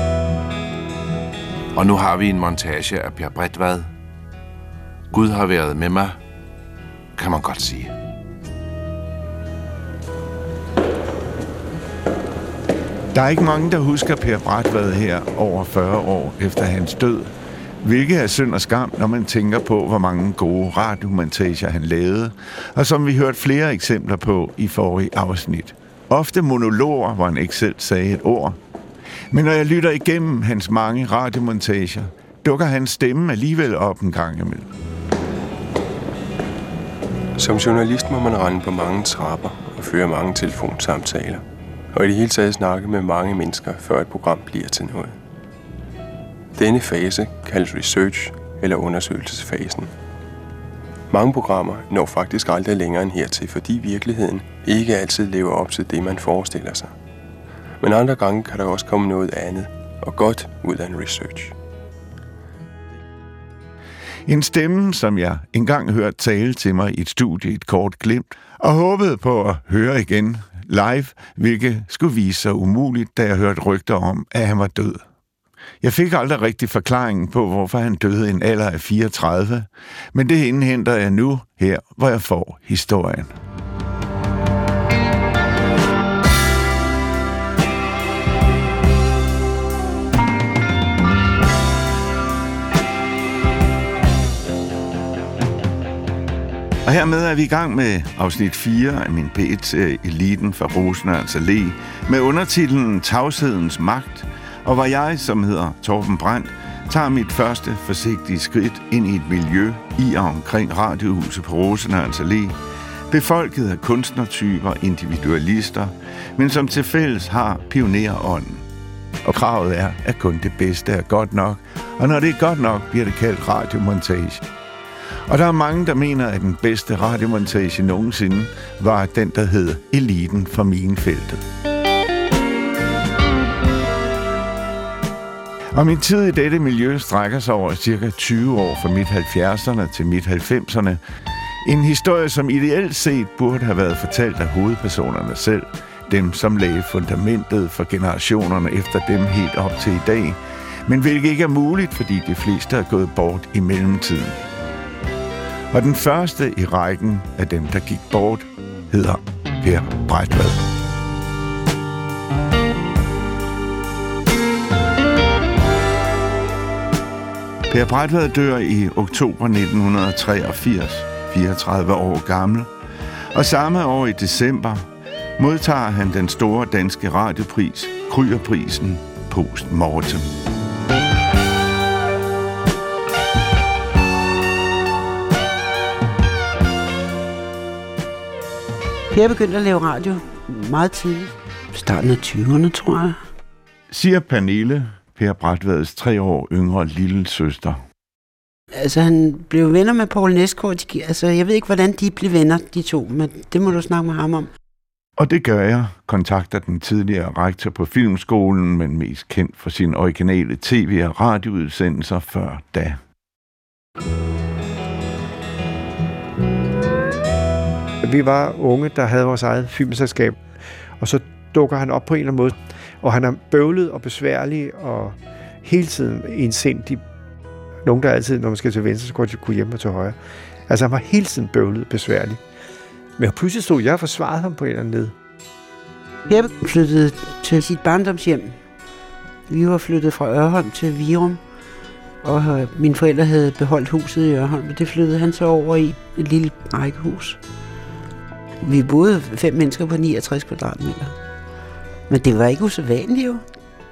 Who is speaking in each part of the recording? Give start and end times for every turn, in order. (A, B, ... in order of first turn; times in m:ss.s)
0:01.7-0:03.9 A
0:05.1-0:06.2 A
0:07.2-0:07.9 A
0:13.1-0:17.3 B
0:17.8-0:28.6 B
0:29.3-0:34.7 B
0:37.4-0:45.2 C
0:46.6-0:49.9 C
0:51.1-0:57.0 C
0:57.8-1:01.6 C
1:04.3-1:15.0 B
1:15.8-1:23.3 B
1:36.8-1:52.6 B
1:53.1-1:58.6 B
1:59.3-2:04.4 B
2:05.3-2:11.4 B
2:15.7-2:21.0 B
2:21.6-2:34.4 B
2:35.7-2:40.6 B
2:47.7-2:52.7 B
2:53.3-2:54.9 B
2:55.4-3:00.3 B
3:09.1-3:13.2 D
3:13.9-3:17.8 B
3:18.7-3:24.5 D
3:25.2-3:33.0 B
3:38.0-3:40.4 E
3:41.0-3:47.0 E
3:47.8-3:52.4 E
3:53.2-3:55.2 E
3:56.3-3:58.6 D
3:59.5-4:01.4 D
4:02.2-4:07.4 D
4:08.6-4:11.2 D
4:12.1-4:13.4 D